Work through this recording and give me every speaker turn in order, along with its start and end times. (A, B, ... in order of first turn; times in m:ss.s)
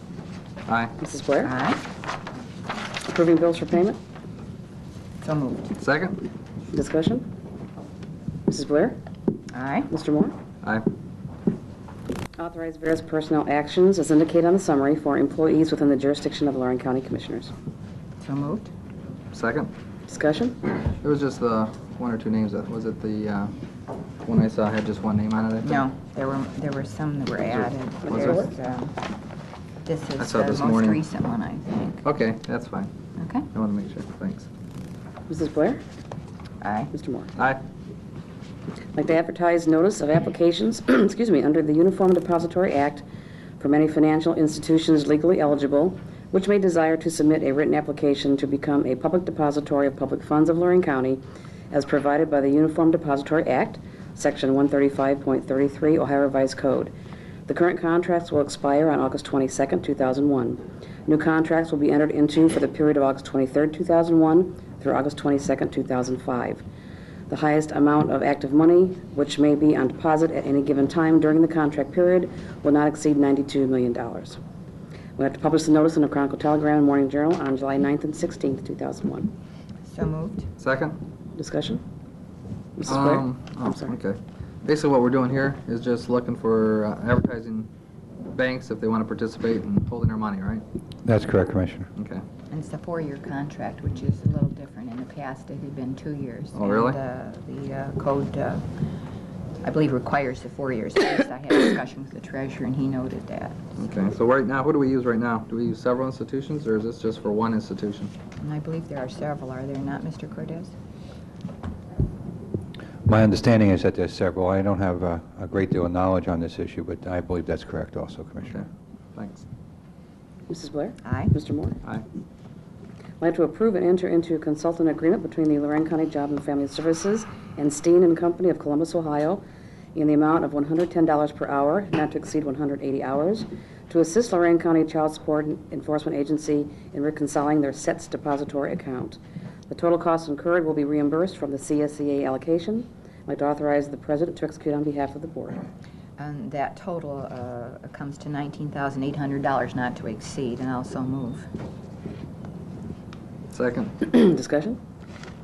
0:00.6-0:01.0 A
0:01.0-0:01.5 B
0:01.4-0:01.8 C
0:03.0-0:04.0 B
0:05.2-0:05.7 C
0:05.8-0:06.2 A
0:06.7-0:07.3 B
0:08.5-0:09.0 B
0:09.5-0:09.9 C
0:09.9-0:10.4 B
0:10.6-0:10.9 A
0:12.4-0:17.5 B
0:18.2-0:18.7 C
0:19.3-0:19.7 A
0:20.1-0:20.7 B
0:21.0-0:23.5 A
0:24.2-0:25.8 A
0:25.6-0:29.0 C
0:27.4-0:28.4 A
0:28.0-0:28.5 B
0:29.8-0:32.0 C
0:30.2-0:31.0 A
0:32.0-0:32.9 A
0:33.2-0:33.5 C
0:33.5-0:34.5 A
0:35.3-0:35.8 B
0:36.6-0:36.9 C
0:36.9-0:37.3 B
0:38.9-0:43.0 B
0:43.6-0:56.9 B
0:57.5-1:06.6 B
1:07.3-1:14.4 B
1:15.2-1:19.3 B
1:19.9-1:20.5 C
1:20.6-1:21.0 A
1:21.4-1:21.8 B
1:22.8-1:24.0 B
1:22.9-1:27.7 A
1:28.3-1:30.6 A
1:31.0-1:31.9 D
1:32.0-1:32.2 A
1:32.5-1:38.6 C
1:36.5-1:37.0 A
1:39.6-1:43.7 C
1:43.8-1:48.1 A
1:48.4-1:50.7 C
1:53.0-1:58.6 D
1:58.5-1:59.4 A
2:00.5-2:01.8 B
2:01.0-2:01.3 C
2:03.2-2:09.4 B
2:09.9-2:25.6 B
2:26.2-2:31.4 C
2:33.5-2:34.0 A
2:34.0-2:34.8 B